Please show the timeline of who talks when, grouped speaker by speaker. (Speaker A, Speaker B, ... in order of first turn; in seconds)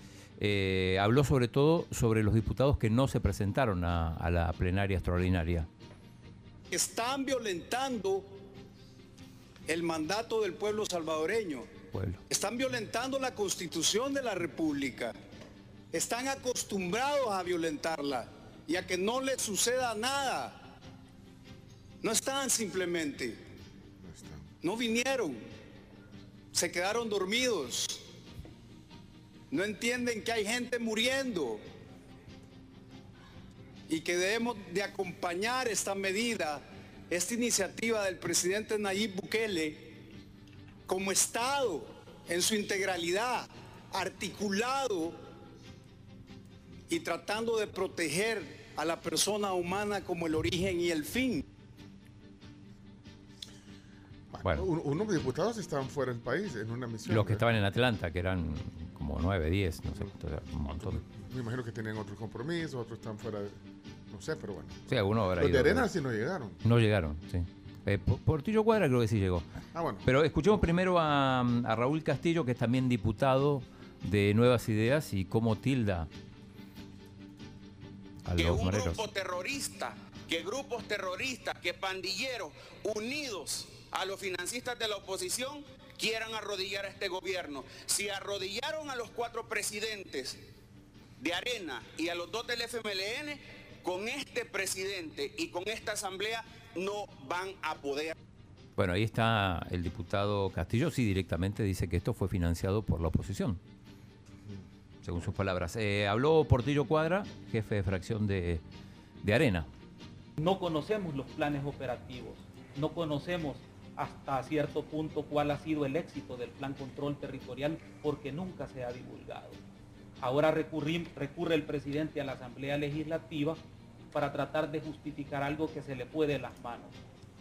Speaker A: 0.4-5.7, 11.9-12.2, 57.1-61.0, 64.9-65.9, 66.6-69.5, 70.0-76.1, 78.2-79.0, 98.8-103.6, 105.0-108.6, 109.2-109.7
Speaker B: 6.7-8.4, 9.7-11.7, 12.3-15.2, 15.9-20.6, 22.0-23.4, 24.6-25.4, 26.5-28.1, 29.5-31.6, 33.9-40.0, 40.9-45.2, 46.9-51.4
Speaker C: 24.0-24.5, 54.3-57.4, 60.8-63.6, 64.1-66.6, 69.7-70.1
Speaker D: 78.4-90.4, 91.2-98.2
Speaker E: 110.4-119.6, 120.2-123.6, 124.1-126.9